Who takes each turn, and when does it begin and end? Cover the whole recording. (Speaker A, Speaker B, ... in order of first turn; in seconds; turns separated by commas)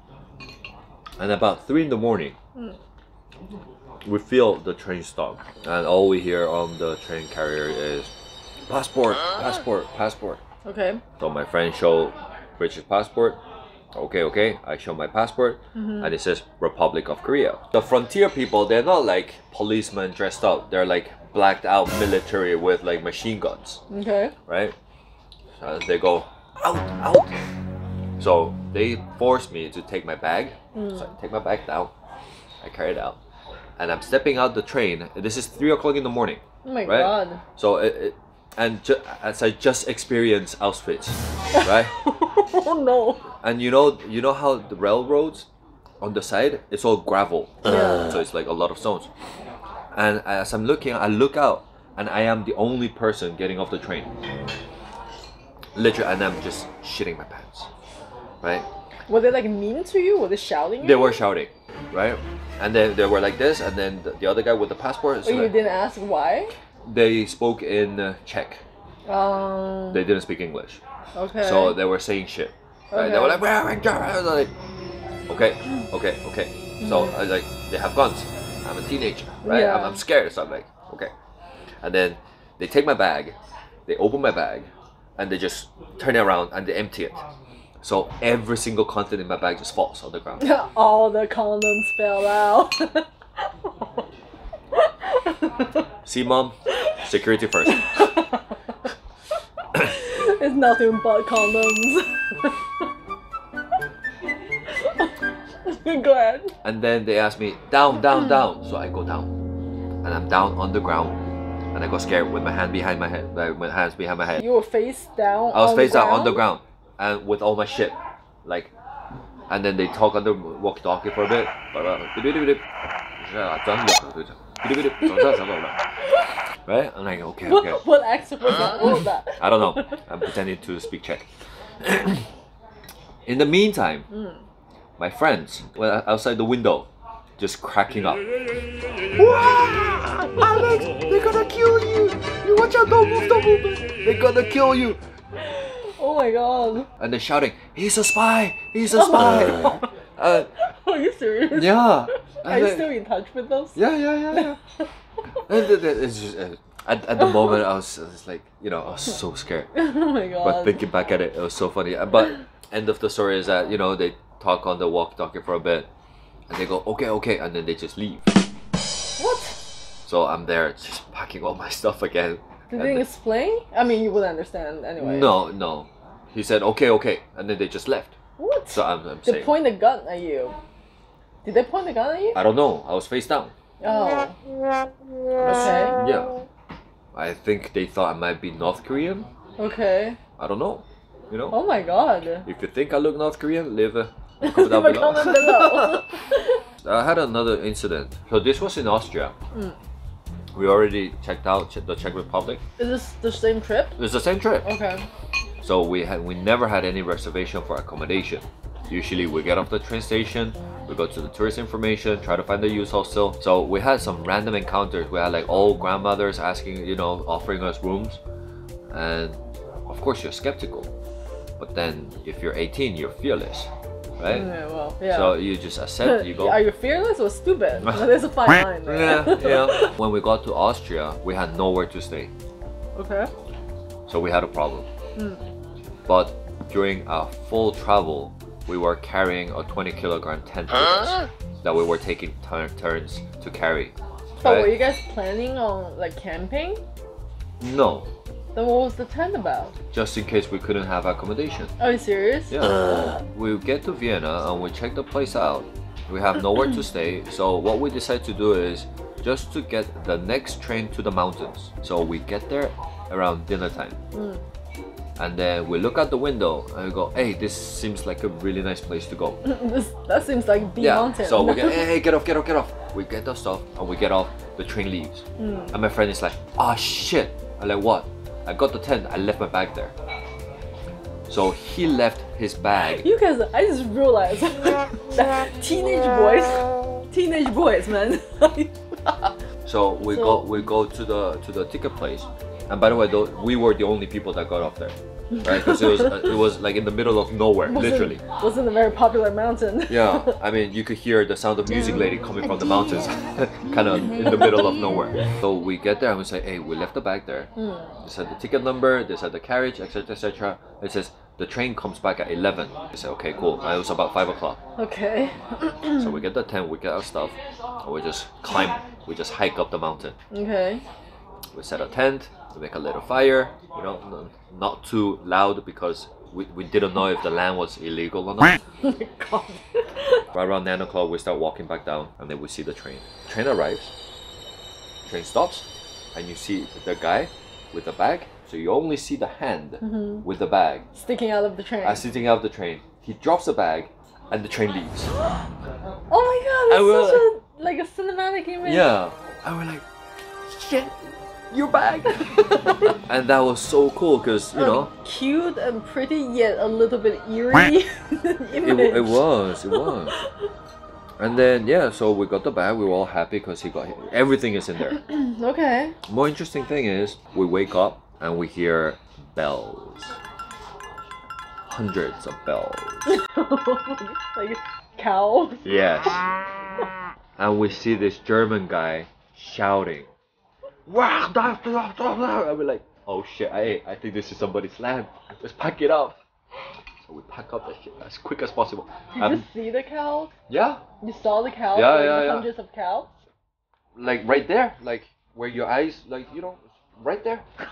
Speaker A: 1.2-2.4, Speaker A: 4.0-8.1, Speaker A: 8.7-10.4, Speaker B: 10.6-11.0, Speaker A: 11.2-13.4, Speaker A: 13.9-23.8, Speaker B: 15.8-16.1, Speaker B: 23.9-24.3, Speaker A: 24.5-24.8, Speaker A: 25.6-27.4, Speaker A: 28.2-31.9, Speaker B: 30.8-31.1, Speaker A: 32.6-33.2, Speaker A: 33.8-41.9, Speaker B: 36.6-37.4, Speaker B: 41.6-43.3, Speaker A: 43.4-45.5, Speaker A: 46.0-49.1, Speaker B: 47.6-48.1, Speaker A: 49.9-54.1, Speaker A: 55.8-57.7, Speaker A: 58.4-58.7, Speaker B: 59.1-61.2, Speaker A: 60.8-65.5, Speaker B: 65.2-66.5, Speaker A: 66.8-68.7, Speaker B: 69.1-70.0, Speaker A: 69.9-70.8, Speaker B: 71.2-71.8, Speaker A: 71.4-74.5, Speaker B: 72.9-73.4, Speaker A: 75.3-81.1, Speaker B: 76.8-77.2, Speaker B: 79.4-80.0, Speaker A: 81.8-83.4, Speaker A: 83.9-87.2, Speaker A: 87.8-90.5, Speaker B: 90.4-93.1, Speaker B: 94.8-95.8, Speaker A: 96.0-98.1, Speaker B: 97.8-98.4, Speaker B: 100.0-102.6, Speaker B: 105.7-106.5, Speaker A: 106.6-109.3, Speaker A: 110.0-111.2, Speaker A: 111.7-114.4, Speaker B: 114.4-116.4, Speaker A: 115.5-118.7, Speaker A: 119.5-122.6, Speaker A: 123.2-125.8, Speaker A: 126.7-127.8, Speaker B: 127.5-129.9, Speaker A: 129.4-131.3, Speaker A: 131.8-132.2, Speaker A: 133.3-134.1, Speaker B: 134.1-134.4, Speaker A: 135.0-138.3, Speaker A: 139.2-145.0, Speaker B: 145.4-146.9, Speaker A: 147.0-150.5, Speaker B: 148.9-149.9, Speaker B: 150.5-153.8, Speaker A: 151.5-152.9, Speaker A: 153.8-154.6, Speaker B: 154.3-154.8, Speaker A: 155.5-159.7, Speaker B: 157.2-157.6, Speaker B: 159.8-160.8, Speaker A: 160.4-165.9, Speaker A: 166.5-168.4, Speaker B: 169.2-169.6, Speaker A: 170.1-173.1, Speaker B: 172.7-175.5, Speaker A: 175.0-178.2, Speaker B: 178.4-180.6, Speaker A: 178.7-179.6, Speaker B: 181.4-182.4, Speaker A: 182.3-183.5, Speaker B: 183.8-184.4, Speaker B: 185.4-186.0, Speaker A: 185.4-186.4, Speaker A: 187.1-189.3, Speaker B: 189.6-190.2, Speaker A: 190.4-191.6, Speaker B: 191.5-192.5, Speaker A: 192.4-196.0, Speaker B: 194.4-196.6, Speaker A: 196.8-199.3, Speaker A: 200.6-202.6, Speaker B: 202.8-204.0, Speaker A: 204.0-204.7, Speaker B: 204.6-205.0, Speaker A: 205.6-218.2, Speaker A: 218.9-220.9, Speaker A: 221.6-224.5, Speaker B: 224.3-225.5, Speaker A: 225.0-226.6, Speaker B: 226.0-229.9, Speaker A: 228.8-232.3, Speaker B: 232.9-233.3, Speaker A: 234.1-234.9, Speaker B: 235.2-235.4, Speaker A: 236.1-244.8, Speaker B: 244.4-246.8, Speaker A: 247.6-248.1, Speaker B: 248.6-249.8, Speaker A: 249.9-251.7, Speaker B: 251.8-253.1, Speaker A: 252.5-264.0, Speaker B: 264.1-264.4, Speaker A: 265.2-269.4, Speaker B: 269.4-271.9, Speaker A: 270.8-279.9, Speaker B: 275.4-275.7, Speaker A: 281.3-283.1, Speaker B: 282.9-288.8, Speaker A: 289.6-298.2, Speaker B: 290.0-290.5, Speaker B: 295.5-296.1, Speaker B: 297.7-300.4, Speaker A: 299.9-307.5, Speaker B: 307.6-307.9, Speaker A: 308.0-314.6, Speaker B: 314.8-316.0, Speaker A: 315.9-320.2, Speaker B: 320.3-320.8, Speaker A: 321.5-328.6, Speaker B: 328.8-329.8, Speaker A: 330.3-333.9, Speaker A: 335.1-340.9, Speaker B: 339.8-340.3, Speaker B: 340.9-342.0, Speaker A: 341.8-345.1, Speaker B: 346.1-348.9, Speaker A: 346.7-347.3, Speaker A: 348.6-349.8, Speaker A: 350.5-351.0, Speaker A: 351.5-352.3, Speaker B: 352.1-352.8, Speaker A: 353.0-354.9, Speaker B: 354.6-360.3, Speaker A: 358.5-360.2, Speaker A: 361.2-365.0, Speaker B: 364.9-366.0, Speaker A: 366.1-370.2, Speaker A: 371.7-373.2, Speaker B: 373.1-375.8, Speaker A: 375.6-376.3, Speaker A: 377.4-380.1, Speaker A: 380.9-386.2, Speaker A: 387.1-389.4, Speaker B: 389.1-390.3, Speaker A: 390.5-390.8, Speaker B: 391.0-393.1, Speaker A: 391.7-392.5, Speaker A: 394.0-397.4